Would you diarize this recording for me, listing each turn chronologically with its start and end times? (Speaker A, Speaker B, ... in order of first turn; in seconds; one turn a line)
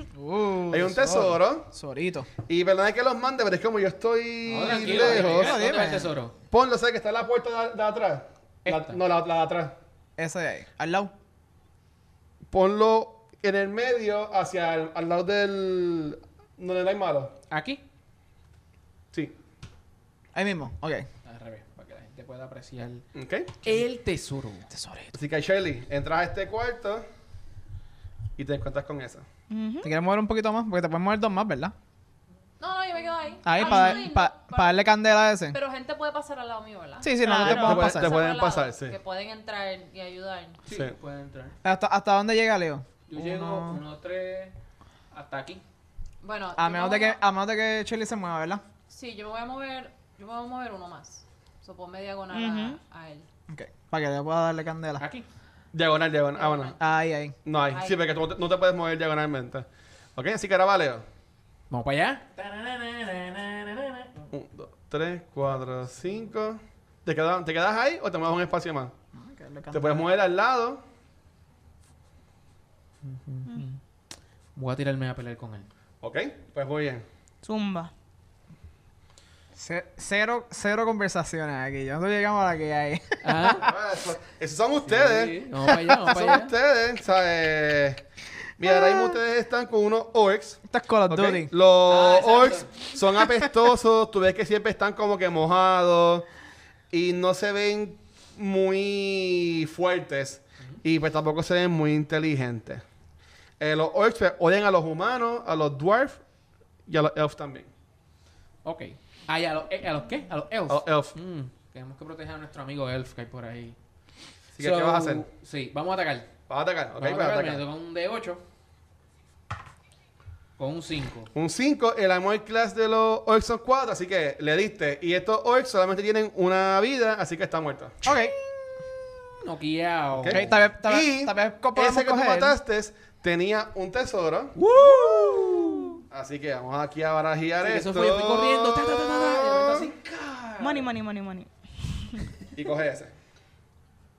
Speaker A: 0.1-2.3
Speaker B: 0.7-1.7
Speaker B: 2.5-5.6
Speaker C: 4.5-6.3
Speaker A: 4.6-6.1
Speaker B: 6.5-9.8
Speaker C: 8.6-9.0
Speaker A: 10.2-11.1
Speaker B: 12.5-17.3
Speaker C: 17.5-17.8
Speaker A: 20.3-21.1
Speaker C: 21.2-23.0
Speaker B: 23.1-23.6
Speaker C: 23.6-24.7
Speaker A: 24.7-25.1
Speaker B: 25.1-27.0
Speaker B: 28.4-29.2
Speaker D: 29.5-29.9
Speaker A: 29.8-31.7
Speaker E: 32.6-34.9
Speaker A: 33.4-35.5
Speaker C: 33.6-33.9
Speaker E: 35.5-40.6
Speaker A: 37.0-38.1
Speaker D: 37.2-37.8
Speaker B: 37.4-39.0
Speaker C: 40.7-41.5
Speaker B: 40.7-40.9
Speaker A: 41.6-43.8
Speaker C: 43.1-44.5
Speaker C: 45.1-45.6
Speaker E: 46.2-47.2
Speaker A: 46.5-48.6
Speaker E: 48.9-53.3
Speaker D: 52.3-52.8
Speaker A: 53.5-55.0
Speaker C: 55.0-55.2
Speaker B: 55.7-56.8
Speaker E: 56.4-56.8
Speaker A: 56.8-57.4
Speaker B: 57.4-61.0
Speaker E: 57.7-58.0
Speaker C: 61.7-64.2
Speaker B: 64.3-68.9
Speaker A: 69.1-70.1
Speaker B: 69.7-70.8
Speaker C: 73.0-73.8
Speaker C: 74.5-75.7
Speaker B: 76.0-77.0
Speaker D: 77.4-77.9
Speaker A: 79.5-83.7
Speaker C: 83.2-83.7
Speaker B: 83.6-88.0
Speaker C: 84.8-86.5
Speaker B: 88.6-96.2
Speaker A: 90.7-91.5
Speaker C: 91.9-92.9
Speaker B: 96.9-102.8
Speaker B: 103.6-106.2
Speaker B: 106.9-107.7
Speaker C: 108.6-113.8
Speaker B: 110.7-111.1
Speaker B: 114.6-115.2
Speaker C: 114.6-116.3
Speaker B: 116.5-117.6
Speaker C: 117.0-118.4
Speaker C: 120.6-121.3
Speaker B: 121.3-128.1
Speaker A: 128.0-128.3
Speaker C: 129.4-130.6
Speaker B: 130.1-134.5
Speaker A: 130.3-132.5
Speaker C: 134.6-135.9
Speaker D: 134.7-136.0
Speaker B: 136.1-139.9
Speaker C: 137.6-140.9
Speaker D: 140.6-142.2
Speaker B: 142.5-143.1